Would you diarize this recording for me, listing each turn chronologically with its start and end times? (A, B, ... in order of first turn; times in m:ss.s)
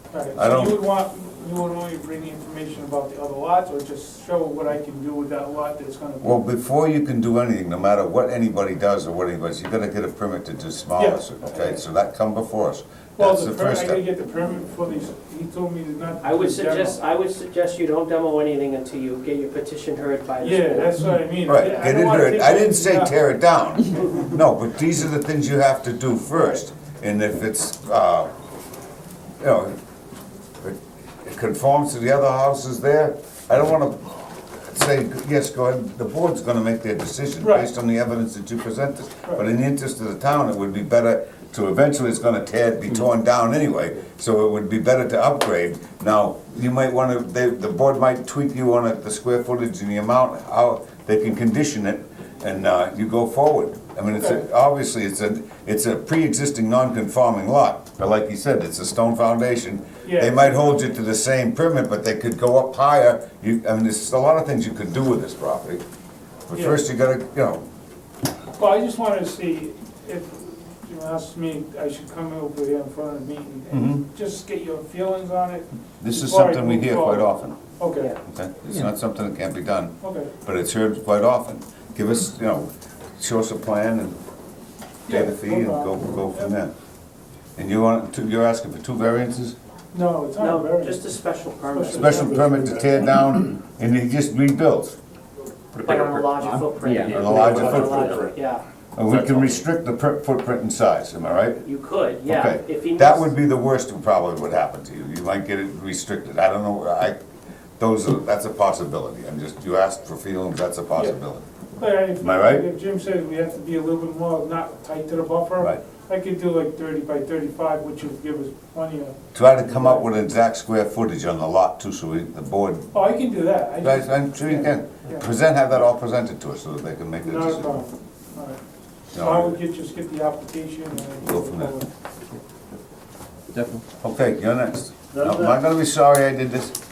0:00.1-0:06.4 A
0:00.3-0:00.8 B
0:06.2-0:14.0 B
0:11.0-0:11.8 A
0:13.2-0:17.0 A
0:16.2-0:21.0 C
0:20.4-0:23.2 A
0:21.4-0:28.3 B
0:29.4-0:29.8 B
0:30.6-1:05.8 B
0:37.4-0:37.7 A
0:54.2-0:54.4 A
1:00.0-1:00.9 A
1:06.5-1:07.6 B
1:06.5-1:06.8 A
1:08.5-1:18.1 A
1:13.7-1:14.0 B
1:16.0-1:17.6 B
1:18.2-1:24.2 B
1:20.0-1:20.3 A
1:25.1-1:26.5 A
1:25.1-1:26.7 B
1:27.6-1:29.6 B
1:29.9-1:31.0 A
1:30.4-1:32.3 C
1:31.7-1:33.1 A
1:31.9-1:35.0 B
1:35.7-1:38.3 D
1:35.8-1:38.6 C
1:37.0-1:38.2 B
1:39.0-1:41.6 B
1:39.0-1:39.6 D
1:41.6-1:43.3 C
1:42.2-1:47.2 B
1:47.8-1:51.4 B
1:51.8-2:00.1 A
1:52.2-1:52.6 B
1:59.3-2:02.9 B
2:02.9-2:05.2 A
2:03.8-2:07.7 B
2:07.2-2:08.6 A
2:09.1-2:09.6 B
2:09.2-2:11.9 A
2:11.2-2:11.7 B
2:13.5-2:13.8 D
2:14.0-2:16.8 B
2:15.1-2:15.6 D